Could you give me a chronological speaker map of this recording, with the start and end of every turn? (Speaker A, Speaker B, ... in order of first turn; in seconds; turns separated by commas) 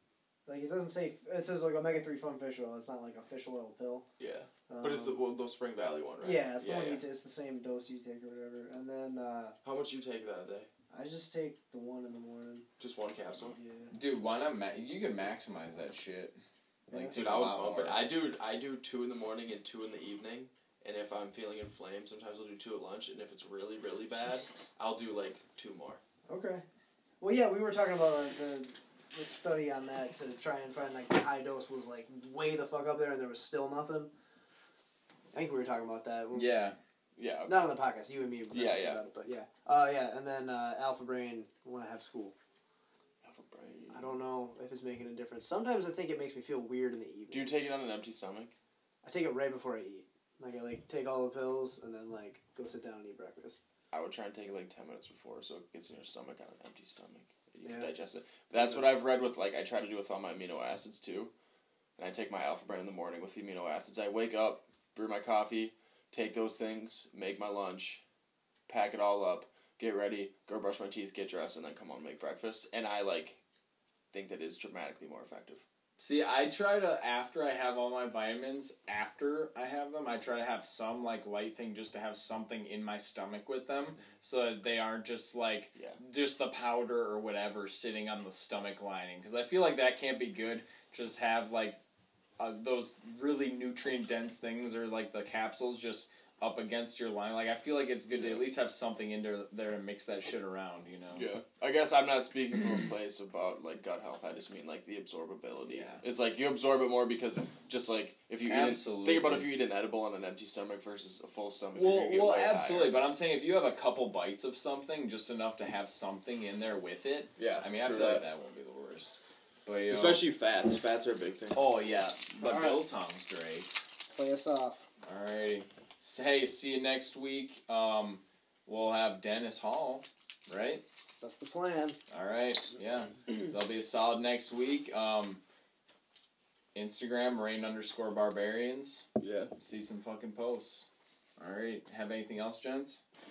Speaker A: 0.5-4.1, Speaker B: 4.2-7.0, Speaker A: 4.7-5.2, Speaker A: 6.2-9.5, Speaker B: 9.6-10.7, Speaker A: 10.9-12.7, Speaker B: 12.8-13.6, Speaker A: 13.4-13.9, Speaker C: 13.9-16.4, Speaker C: 16.9-18.0, Speaker B: 17.1-26.0, Speaker A: 24.1-24.7, Speaker A: 26.3-26.6, Speaker A: 27.2-34.1, Speaker A: 35.3-36.6, Speaker C: 36.3-36.8, Speaker B: 37.2-37.8, Speaker A: 37.5-42.3, Speaker B: 38.5-39.0, Speaker B: 43.2-44.1, Speaker A: 43.9-47.7, Speaker B: 47.3-48.5, Speaker A: 49.0-53.6, Speaker B: 53.9-61.3, Speaker A: 57.6-57.9, Speaker A: 58.5-58.8, Speaker B: 62.0-68.0, Speaker B: 68.7-73.4, Speaker B: 74.1-75.6, Speaker C: 76.0-91.8, Speaker C: 92.4-101.3, Speaker B: 98.1-98.4, Speaker B: 101.1-112.9, Speaker C: 105.7-106.0, Speaker C: 108.5-109.5, Speaker C: 111.8-120.2, Speaker B: 117.4-118.2, Speaker B: 119.9-121.6, Speaker C: 121.5-123.8, Speaker A: 122.4-122.8, Speaker A: 124.1-124.8, Speaker C: 125.0-130.8, Speaker A: 131.2-132.0, Speaker C: 132.1-135.4, Speaker C: 136.7-139.1, Speaker B: 139.2-139.5, Speaker C: 139.6-143.0